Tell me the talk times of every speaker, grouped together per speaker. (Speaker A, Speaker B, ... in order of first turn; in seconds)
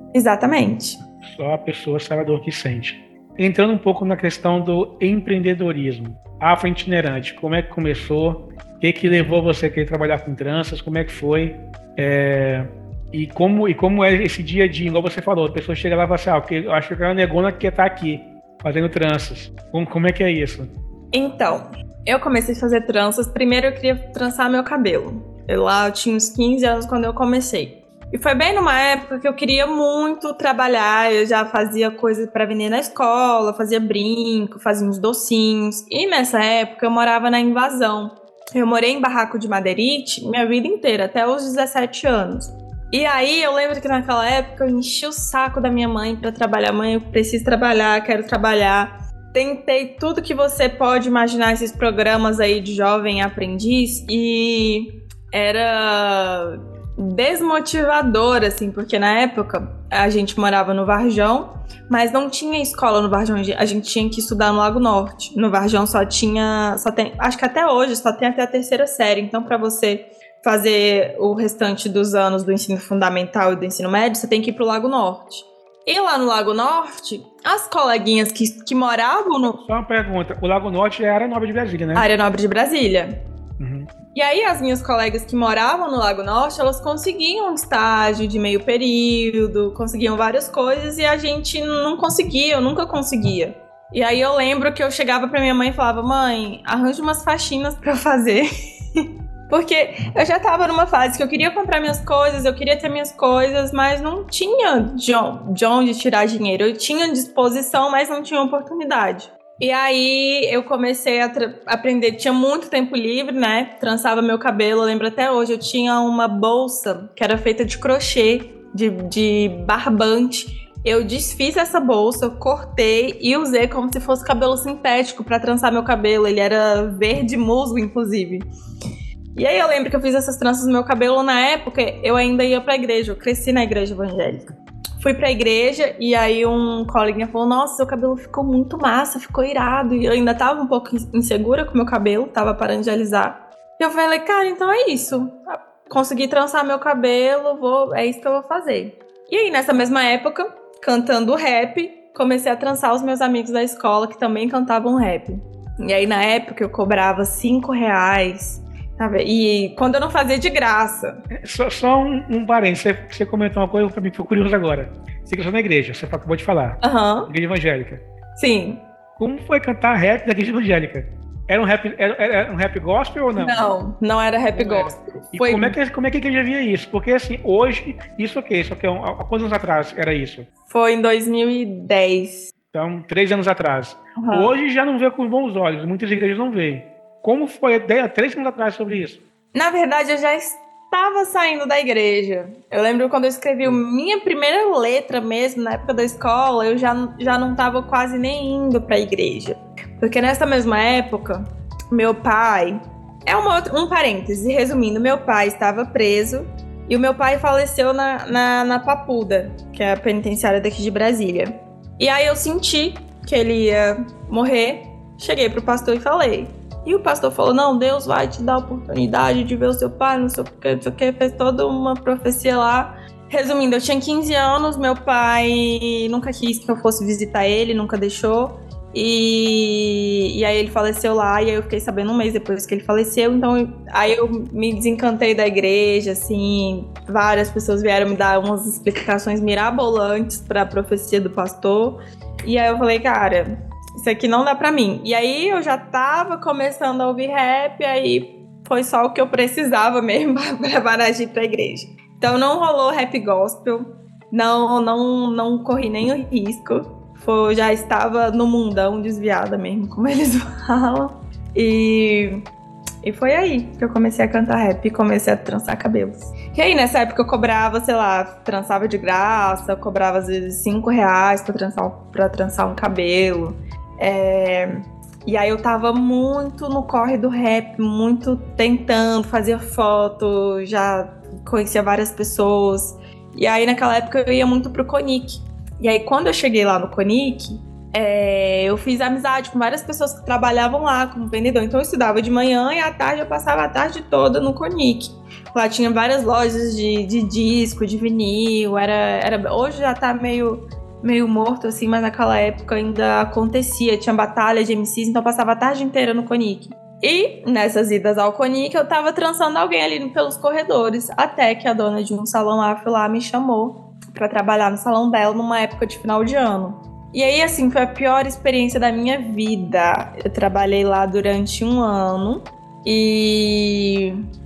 Speaker A: 0.1-1.0, 21.1-79.6, 81.9-83.1, 84.1-98.5, 99.5-128.4, 129.3-134.4, 135.0-161.1, 166.8-167.3, 168.3-168.8, 173.4-175.8, 180.7-182.5, 184.2-184.5, 189.5-262.4, 263.0-274.7, 275.2-324.2
Speaker B: 1.2-20.7, 79.6-82.0, 83.6-83.9, 161.3-168.0, 169.2-173.6, 174.5-180.5, 182.7-189.2